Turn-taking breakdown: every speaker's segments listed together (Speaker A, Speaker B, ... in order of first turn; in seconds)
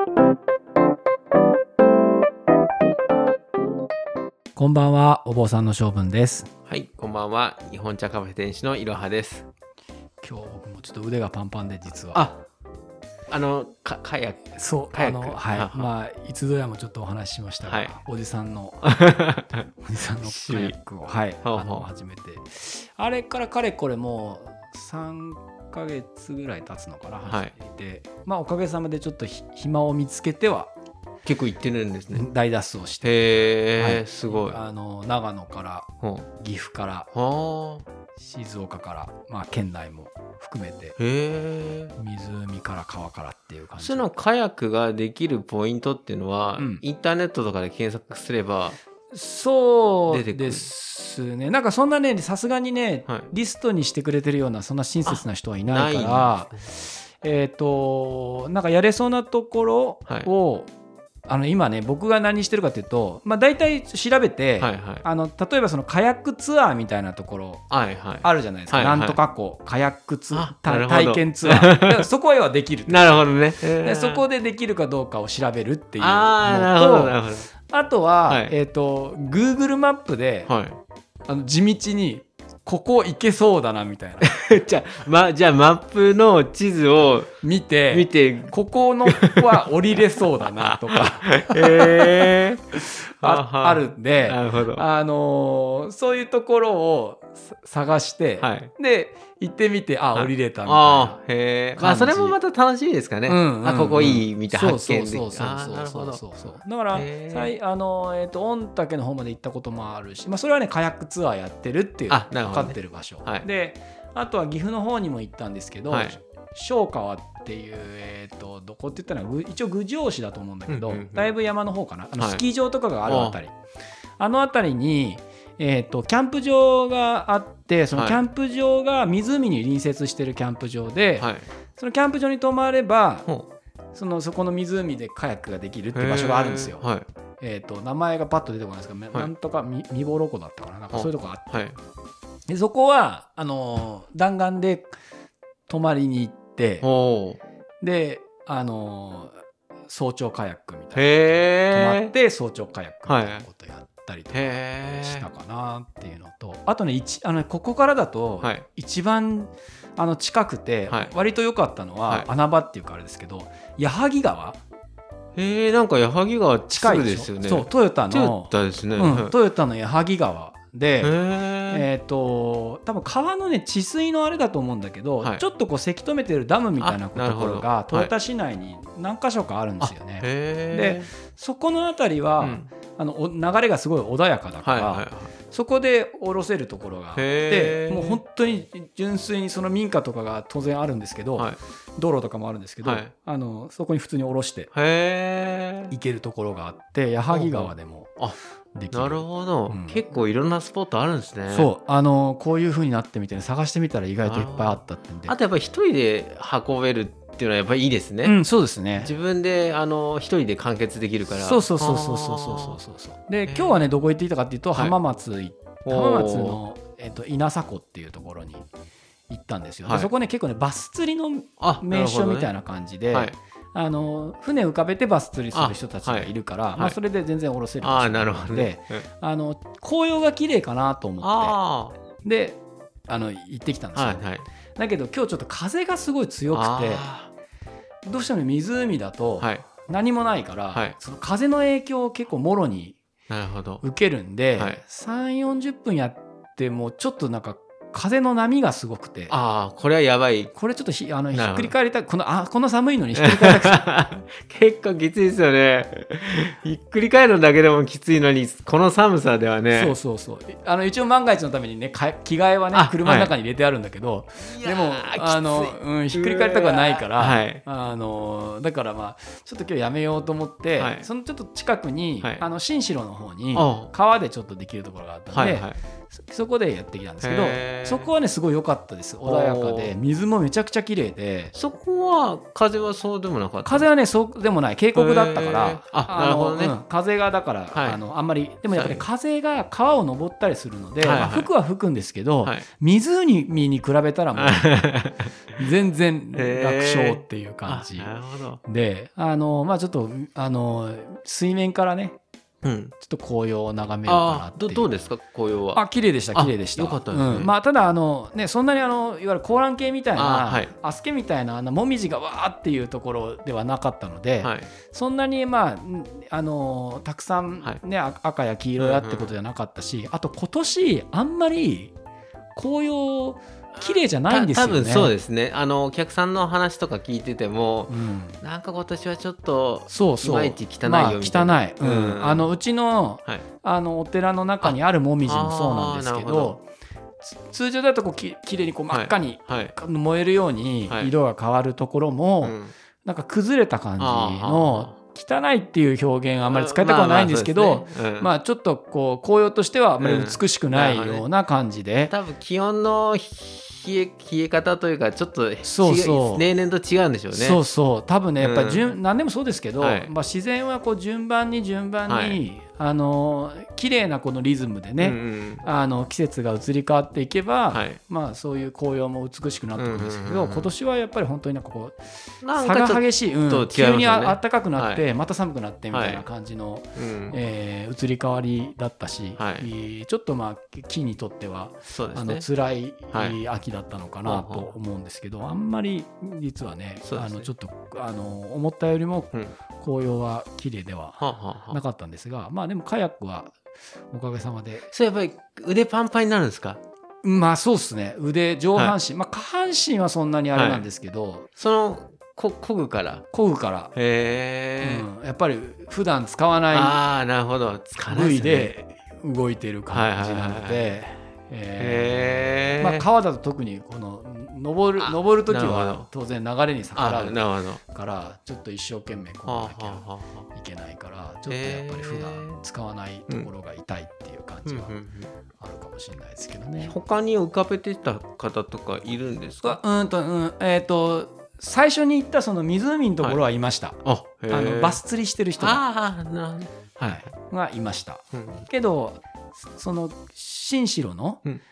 Speaker A: 4.5-6.5, 10.2-12.3, 14.5-19.0, 19.7-30.7, 32.1-33.2, 33.7-37.1, 38.2-41.0, 42.0-44.2, 46.6-46.8, 49.1-60.7, 61.2-67.6, 68.2-80.5, 81.3-84.3, 87.4-101.2, 101.8-102.4, 103.2-123.5, 124.2-133.3, 133.9-136.8, 137.4-141.7, 142.5-144.9, 145.7-146.9, 147.8-149.3, 149.9-164.6, 166.7-171.2, 171.7-194.7, 195.9-198.2, 198.7-200.0, 201.5-205.3, 208.2-209.1, 211.3-218.7, 219.3-231.6, 232.2-237.1, 238.0-242.9, 243.8-249.3, 250.5-253.8, 259.7-281.5, 283.6-294.8, 295.6-298.1, 298.6-302.2, 303.0-304.9, 305.7-321.9, 322.5-325.1, 327.9-328.4, 329.9-336.6, 337.2-352.1, 355.6-356.5, 357.3-393.5, 394.1-394.9, 397.2-401.5, 403.3-403.9, 404.8-407.0, 408.0-425.0, 425.6-426.9, 429.6-435.8, 437.1-441.4
Speaker B: 6.7-9.4, 12.1-12.4, 13.3-15.9, 17.6-17.9, 18.8-19.6, 20.2-20.7, 21.4-21.9, 27.3-27.5, 31.2-32.3, 33.0-34.6, 36.0-36.3, 37.1-37.8, 41.0-42.0, 43.8-48.8, 50.1-50.7, 55.0-56.6, 64.6-65.0, 67.7-69.2, 70.3-72.1, 72.9-74.2, 76.0-77.5, 78.3-78.5, 80.5-80.8, 84.2-87.3, 87.9-88.5, 89.0-92.6, 93.2-94.8, 98.4-98.7, 100.1-106.2, 106.9-107.5, 112.1-113.5, 115.9-116.2, 120.7-121.3, 122.2-122.4, 123.0-123.4, 127.9-128.2, 131.2-131.5, 135.9-137.1, 140.9-141.8, 146.8-147.4, 150.9-152.1, 153.1-153.4, 154.3-155.3, 165.3-169.3, 171.0-171.9, 176.8-178.1, 179.8-181.1, 182.4-182.7, 184.6-185.3, 187.1-188.2, 192.8-193.1, 194.7-195.9, 197.3-198.4, 198.9-201.7, 204.2-208.4, 209.0-212.8, 213.4-213.8, 215.8-216.6, 221.6-222.5, 225.5-227.0, 227.8-229.0, 231.2-232.0, 233.9-234.5, 236.5-237.3, 239.4-239.7, 243.3-243.8, 244.6-244.8, 249.3-250.5, 251.3-251.7, 253.1-259.9, 262.7-263.3, 264.4-267.6, 270.8-271.1, 273.5-273.9, 275.3-275.8, 277.2-278.1, 279.2-279.9, 281.5-283.9, 284.9-286.8, 287.7-288.0, 288.7-289.0, 291.0-291.5, 294.3-295.3, 296.3-298.6, 302.6-302.9, 304.1-305.8, 306.3-307.5, 310.1-310.7, 314.4-314.7, 318.8-319.3, 324.3-332.5, 334.6-336.6, 338.9-339.7, 342.4-342.7, 344.0-344.9, 346.4-348.3, 350.0-351.2, 352.1-357.6, 358.4-359.0, 359.8-360.1, 362.1-362.4, 365.0-365.6, 367.7-368.0, 369.8-370.7, 372.4-375.0, 375.9-376.2, 376.9-377.4, 379.4-379.7, 381.9-382.4, 383.1-383.4, 384.2-384.7, 387.0-387.5, 391.2-391.8, 394.9-396.8, 400.5-400.9, 401.6-403.2, 403.9-405.1, 406.7-408.7, 409.9-411.0, 411.8-413.1, 415.0-416.1, 416.9-417.8, 419.4-420.5, 421.5-422.6, 424.6-425.3, 426.8-429.8, 434.0-435.0, 435.6-437.3, 438.3-438.6